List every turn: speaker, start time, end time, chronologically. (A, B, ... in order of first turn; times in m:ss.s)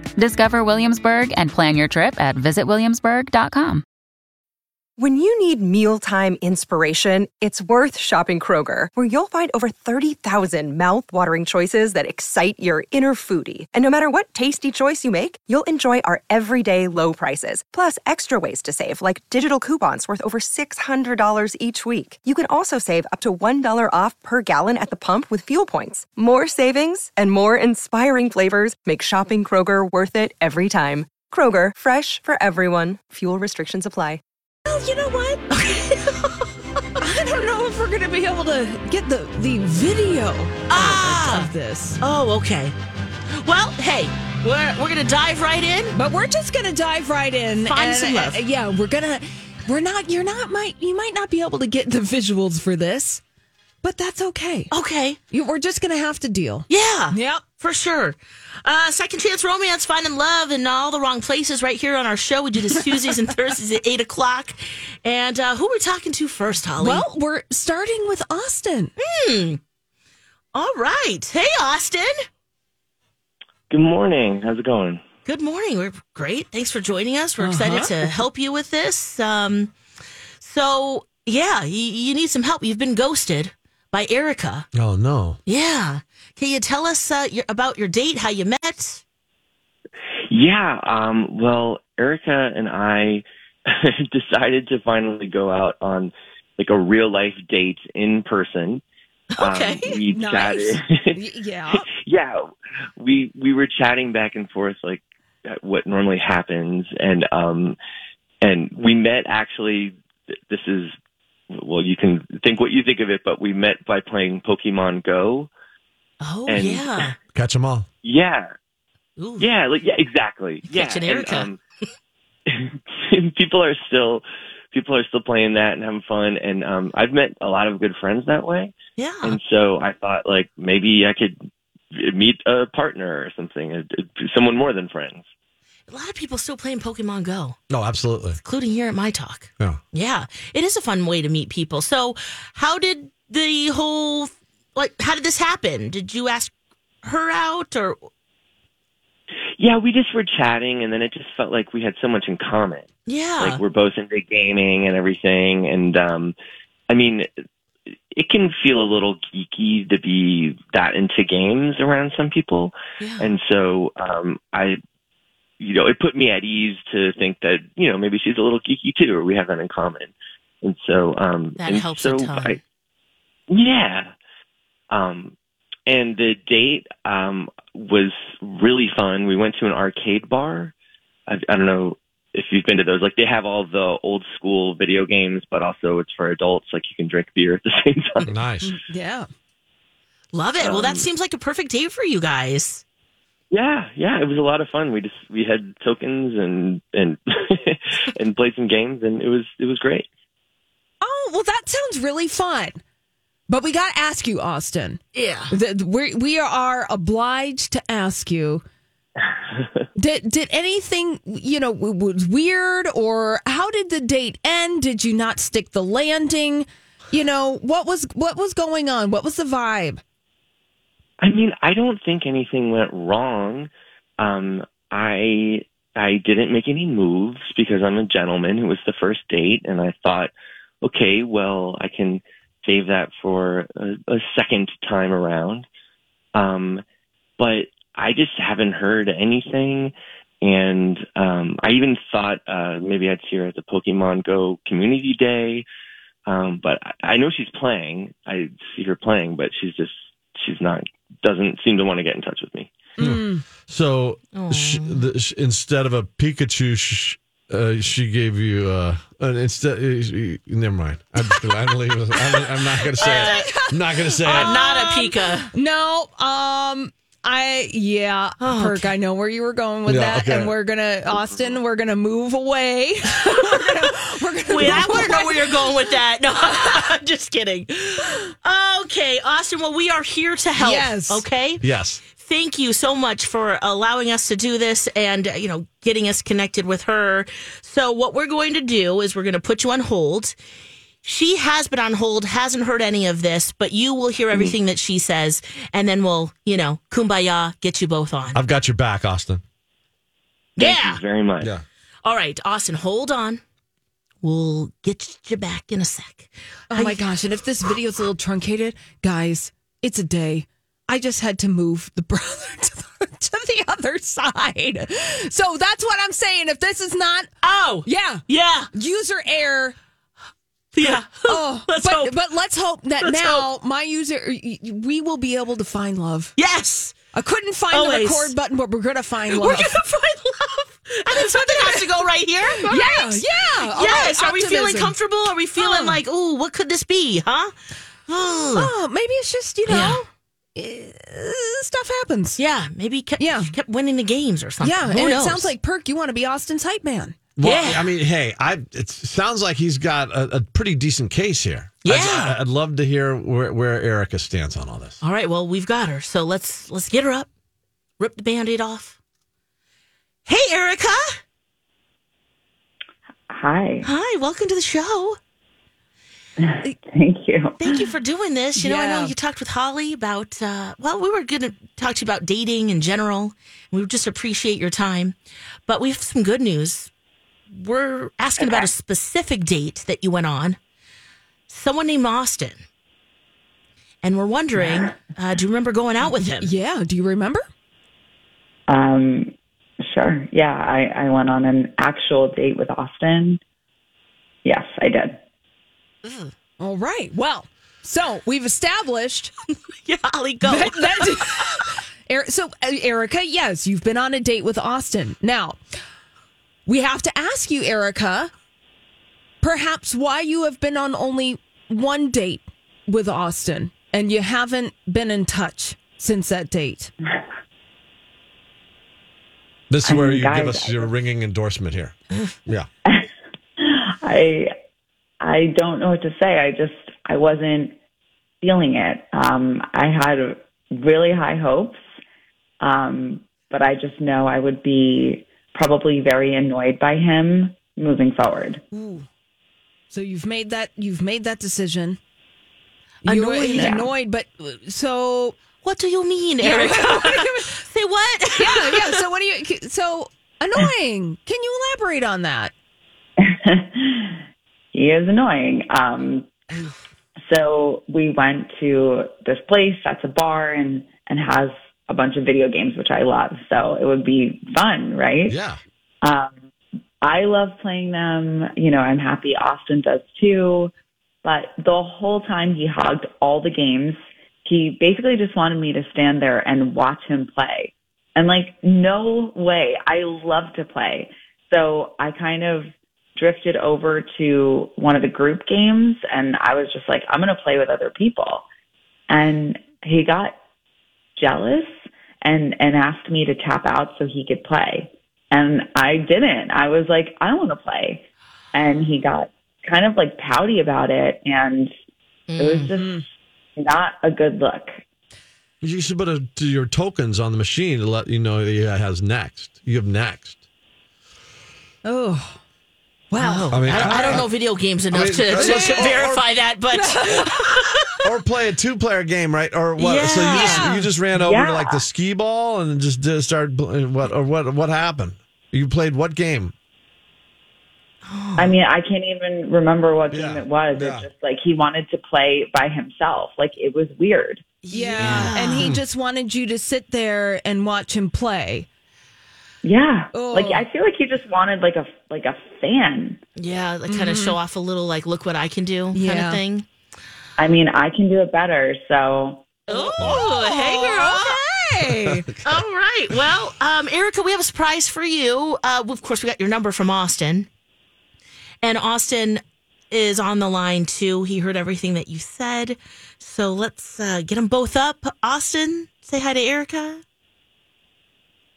0:00.2-0:03.8 A
0:05.0-0:34.2 B
0:34.7-0:35.4 C
0:35.5-0:36.5 D
0:37.0-0:42.0 C
0:40.7-0:42.8 D
0:43.4-0:46.0 D
0:45.9-0:53.2 C
0:47.6-0:48.4 D
0:53.8-0:54.7 C
0:54.7-0:55.2 D
0:55.3-0:57.4 C
0:56.7-1:07.0 D
1:06.8-1:08.9 C
1:09.0-1:09.6 D
1:10.5-1:12.1 D
1:13.7-1:15.0 E
1:15.2-1:19.7 D
1:17.4-1:18.2 C
1:20.4-1:24.7 D
1:24.8-1:25.4 F
1:25.5-1:29.0 D
1:30.3-1:38.8 E
1:39.4-1:39.9 D
1:39.4-1:41.2 E
1:39.9-1:41.9 C
1:42.0-1:42.4 E
1:43.0-1:47.8 E
1:48.4-1:50.0 E
1:50.5-1:50.9 E
1:51.5-1:55.5 E
1:56.2-1:57.1 D
1:56.5-1:57.1 E
1:57.4-1:57.9 F
1:58.0-1:58.5 E
1:59.2-1:59.5 D
1:59.4-2:01.6 E
2:00.7-2:01.5 D
2:02.5-2:11.4 E
2:09.0-2:09.4 D
2:11.9-2:15.2 E
2:15.9-2:17.6 D
2:17.7-2:18.4 F
2:18.4-2:28.0 D
2:29.6-2:32.9 E
2:33.1-2:33.6 D
2:33.4-2:36.4 E
2:36.9-2:37.3 E
2:38.1-2:44.8 E
2:43.0-2:43.3 D
2:45.6-2:52.6 E
2:51.6-2:52.6 D
2:53.5-2:54.1 E
2:54.9-2:55.4 E
2:55.9-3:00.7 E
3:01.3-3:08.3 E
3:08.2-3:08.8 F
3:08.6-3:09.3 C
3:10.3-3:12.8 D
3:10.6-3:11.1 E
3:13.5-3:20.1 E
3:21.0-3:22.8 C
3:23.5-3:25.0 C
3:25.1-3:25.5 D
3:25.5-3:28.6 C
3:30.0-3:40.0 C
3:41.2-3:50.3 E
3:50.8-3:55.7 E
3:56.4-3:56.8 E
3:57.4-4:05.6 E
4:06.3-4:12.7 E
4:13.0-4:13.4 C
4:13.0-4:24.6 F
4:14.3-4:15.1 D
4:22.2-4:35.7 C
4:23.0-4:23.6 D
4:24.3-4:25.5 D
4:28.4-4:28.9 D
4:29.9-4:30.6 F
4:34.5-4:50.4 D
4:40.6-4:41.3 C
4:41.6-4:42.0 F
4:51.0-4:58.4 D
4:58.3-4:59.4 F
5:00.6-5:01.0 D
5:00.6-5:01.5 E
5:02.0-5:03.4 D
5:04.2-5:07.1 D
5:06.7-5:17.3 C
5:17.4-5:18.7 D
5:17.8-5:19.8 C
5:20.7-5:22.2 D
5:20.9-5:26.3 C
5:23.0-5:23.4 D
5:26.4-5:27.0 D
5:27.1-5:29.8 C
5:27.7-5:28.3 D
5:29.3-5:37.5 D
5:31.2-5:31.9 C
5:32.4-5:35.0 C
5:35.6-5:36.0 C
5:38.1-5:38.7 D
5:38.5-5:42.4 C
5:39.7-5:40.0 D
5:42.4-5:45.5 D
5:43.2-5:43.5 C
5:44.6-5:47.2 C
5:47.4-5:55.0 F
5:47.4-5:47.9 D
5:51.8-5:52.4 D
5:55.0-5:57.3 D
5:58.0-5:59.0 D
6:00.3-6:01.2 D
6:03.3-6:03.9 G
6:03.8-6:05.2 D
6:06.4-6:07.8 G
6:07.6-6:15.2 D
6:08.6-6:09.2 C
6:15.7-6:16.9 D
6:17.5-6:20.6 D
6:18.4-6:18.7 G
6:21.5-6:22.6 D
6:24.0-6:26.5 D
6:26.1-6:27.5 C
6:28.7-6:33.4 G
6:34.4-6:35.2 G
6:36.0-6:36.3 D
6:36.6-6:39.3 C
6:39.7-6:41.5 D
6:40.4-6:45.6 C
6:46.7-6:48.3 C
6:49.4-6:56.9 C
6:59.7-7:01.9 F
6:59.8-7:00.9 G
7:03.6-7:04.5 G
7:05.2-7:07.8 G
7:08.4-7:11.8 G
7:12.6-7:18.6 G
7:18.7-7:19.1 C
7:19.9-7:22.0 C
7:23.0-7:25.4 C
7:23.0-7:23.9 D
7:23.5-7:23.9 G
7:25.6-7:29.0 D
7:26.4-7:27.5 C
7:28.4-7:32.5 C
7:33.2-7:34.2 G
7:34.7-7:36.3 G
7:37.3-7:45.4 G
7:45.3-7:45.6 F
7:46.0-7:46.3 G
7:47.0-7:50.7 G
7:51.2-8:08.5 G
8:09.1-8:10.4 G
8:11.2-8:11.7 G
8:12.2-8:21.7 G
8:22.3-8:22.7 D
8:22.4-8:23.0 G
8:22.8-8:23.0 C
8:23.6-8:24.8 G
8:25.6-8:30.4 F
8:31.8-8:32.4 C
8:33.1-8:34.2 C
8:33.2-8:37.8 D
8:33.5-8:34.3 F
8:34.9-8:36.2 F
8:35.3-8:36.0 C
8:36.7-8:37.3 C
8:38.0-8:46.5 F
8:39.8-8:40.7 D
8:40.3-8:40.9 C
8:41.1-8:41.8 G
8:48.0-8:48.6 D
8:48.4-8:54.4 G
8:50.1-8:51.1 F
8:54.6-8:55.7 D
8:54.7-8:58.7 C
8:55.0-8:55.8 F
8:59.6-9:03.2 G
9:00.1-9:00.7 C
9:03.4-9:06.7 D
9:03.9-9:04.4 C
9:05.9-9:06.4 C
9:07.4-9:09.5 G
9:09.7-9:12.3 C
9:09.7-9:11.4 D
9:10.0-9:10.3 F
9:11.9-9:12.2 F
9:12.4-9:17.5 D
9:18.6-9:27.0 D